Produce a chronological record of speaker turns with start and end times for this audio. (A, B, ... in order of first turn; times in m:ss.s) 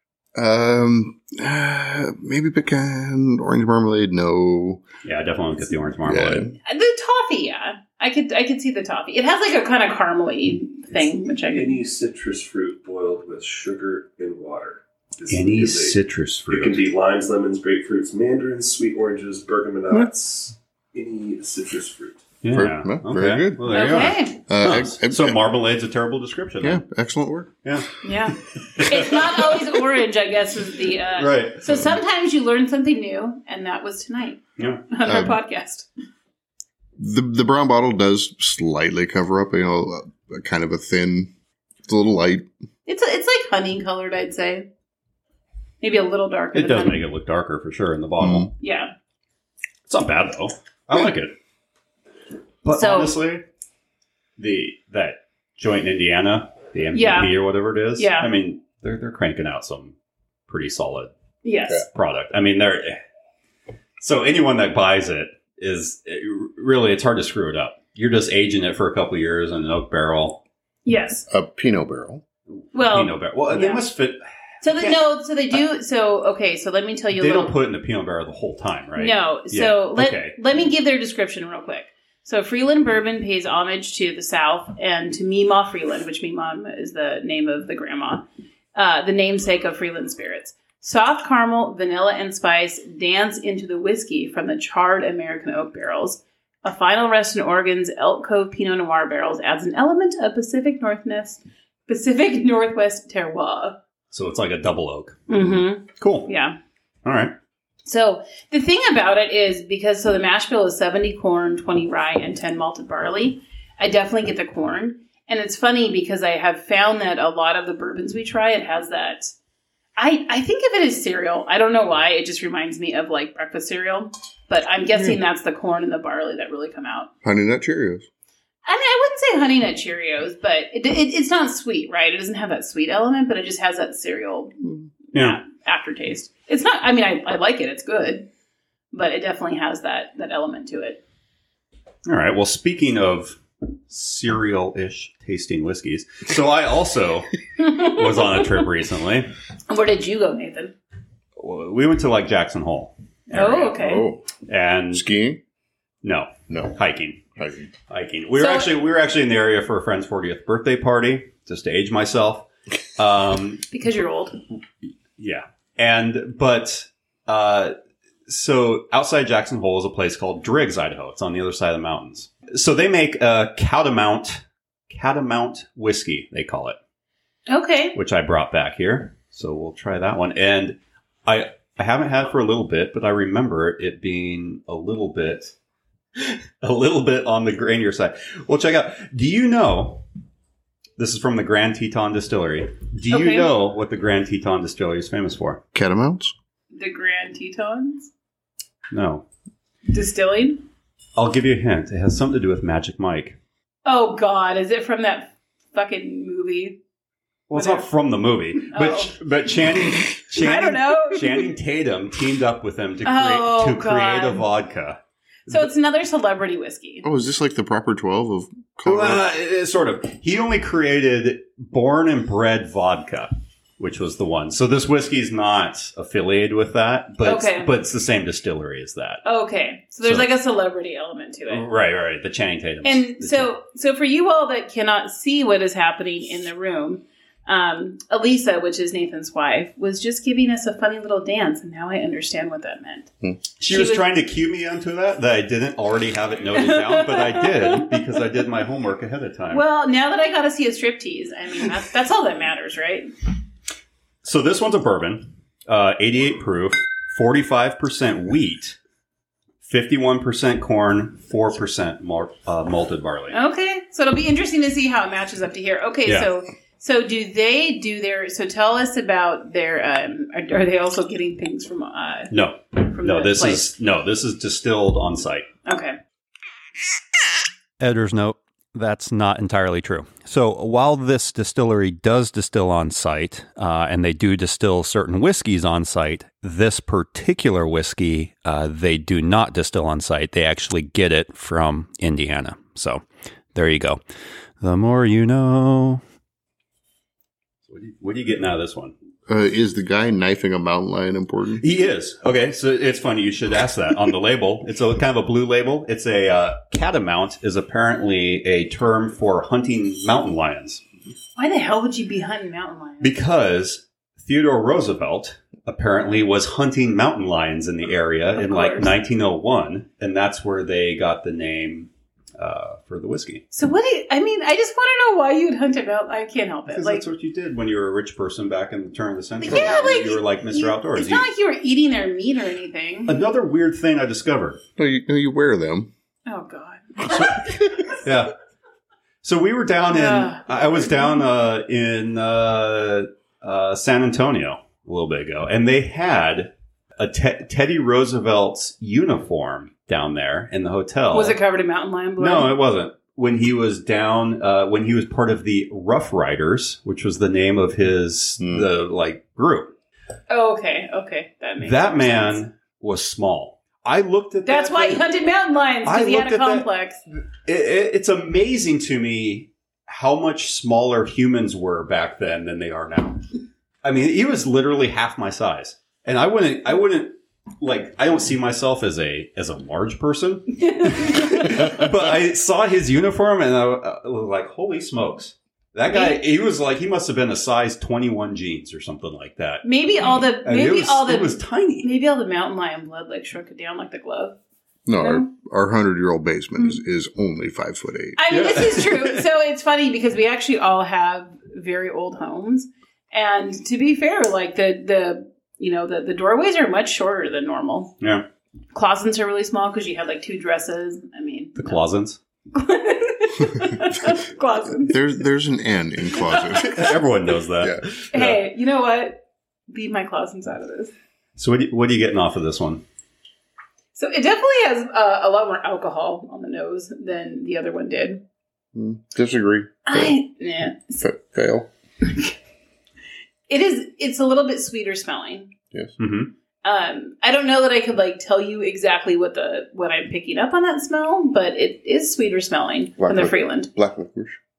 0:00.3-0:04.8 A
0:05.0-0:06.5 B
0:06.0-0:06.5 A
0:06.6-0:11.8 C
0:11.5-0:16.0 D
0:15.3-0:16.8 B
0:16.5-0:22.3 D
0:22.4-0:26.8 B
0:22.5-0:25.4 A
0:23.7-0:24.4 C
0:26.6-0:27.5 A
0:27.6-0:27.9 B
0:28.0-0:35.9 C
0:28.8-0:29.4 B
0:31.2-0:31.6 B
0:34.6-0:34.8 B
0:35.0-0:35.4 A
0:37.0-0:41.3 A
0:41.8-0:42.5 A
0:42.8-0:44.7 C
0:45.8-0:47.0 C
0:46.5-0:48.5 B
0:48.2-0:48.5 A
0:48.6-0:48.9 C
0:49.9-0:51.3 B
0:52.6-0:53.4 B
0:52.7-0:53.1 C
0:54.4-0:59.9 B
0:56.9-0:57.3 C
0:58.0-0:58.3 C
1:00.5-1:01.1 B
1:01.4-1:01.8 C
1:01.9-1:03.0 B
1:04.0-1:10.4 B
1:10.8-1:11.2 C
1:11.3-1:12.2 A
1:12.6-1:15.0 B
1:12.7-1:13.8 C
1:14.6-1:17.5 C
1:17.1-1:20.4 B
1:19.0-1:43.8 C
1:44.1-1:45.2 B
1:45.3-1:46.6 C
1:46.0-1:46.3 B
1:47.0-1:47.3 B
1:47.8-1:59.3 C
2:00.0-2:07.1 C
2:07.2-2:08.0 A
2:08.6-2:14.6 C
2:14.6-2:14.9 A
2:15.1-2:18.3 C
2:15.1-2:15.4 B
2:18.9-2:21.0 C
2:22.0-2:29.3 B
2:27.6-2:28.5 C
2:29.7-2:30.7 C
2:31.4-2:33.8 B
2:33.3-2:34.1 C
2:33.8-2:34.3 A
2:34.4-2:35.0 B
2:34.9-2:35.4 A
2:36.0-2:37.2 B
2:36.5-2:36.8 A
2:37.4-2:37.7 A
2:37.9-2:43.6 B
2:38.4-2:38.7 C
2:43.7-2:44.4 C
2:45.2-2:47.7 B
2:48.3-2:56.8 B
2:57.5-2:58.0 C
2:57.9-3:05.5 B
3:06.2-3:10.0 B
3:11.0-3:15.6 B
3:13.1-3:13.5 C
3:15.7-3:16.3 A
3:16.7-3:18.1 C
3:18.9-3:19.2 B
3:19.9-3:20.6 C
3:21.2-3:23.4 B
3:23.8-3:26.8 C
3:27.5-3:35.7 B
3:27.5-3:27.8 C
3:28.7-3:29.1 C
3:30.4-3:31.5 C
3:33.0-3:34.5 C
3:35.5-3:37.0 C
3:37.0-3:39.2 A
3:38.8-3:49.2 B
3:47.2-3:47.7 C
3:49.2-3:51.6 C
3:50.0-3:50.3 B
3:51.5-3:53.5 B
3:52.8-4:03.1 C
4:03.6-4:09.6 B
4:03.7-4:04.0 C
4:06.5-4:08.0 C
4:09.5-4:13.1 C
4:14.2-4:18.8 B
4:19.6-4:23.4 B
4:23.3-4:32.3 C
4:32.3-4:35.5 B
4:32.9-4:33.7 C
4:35.6-4:36.0 C
4:37.8-4:53.0 B
4:53.5-4:54.0 B
4:54.6-4:56.0 B
4:57.7-4:58.9 B
4:59.3-5:01.6 A
5:01.6-5:10.8 B
5:11.4-5:13.1 C
5:13.0-5:23.4 B
5:18.4-5:18.9 C
5:23.5-5:27.0 C
5:26.7-5:31.3 B
5:29.4-5:33.2 C
5:33.1-5:34.6 B
5:34.8-5:35.9 A
5:36.3-5:37.7 C
5:38.0-5:38.3 B
5:39.2-5:51.4 B
5:39.9-5:41.1 C
5:51.1-5:52.5 C
5:52.2-5:59.7 B
5:58.4-5:58.6 A
6:00.3-6:02.4 C
6:01.6-6:05.0 B
6:04.4-6:07.0 C
6:05.8-6:06.7 B
6:07.4-6:13.2 B
6:13.8-6:31.9 B
6:20.6-6:21.7 C
6:25.9-6:26.2 C
6:29.6-6:34.4 C
6:34.8-6:38.2 A
6:35.0-6:35.3 C
6:38.2-6:47.9 C
6:38.3-6:39.2 B
6:48.7-6:51.8 C
6:51.6-6:52.2 B
6:52.5-6:55.0 C
6:54.8-6:56.9 A
6:56.2-6:56.9 C
6:56.6-6:58.4 B
6:58.1-7:00.9 C
7:01.4-7:02.8 B
7:03.9-7:08.2 C
7:08.7-7:10.2 A
7:09.9-7:11.0 C
7:11.0-7:11.7 A
7:12.0-7:12.3 C
7:13.5-7:15.5 C
7:16.0-7:16.3 B
7:16.6-7:23.7 C
7:23.0-7:24.4 A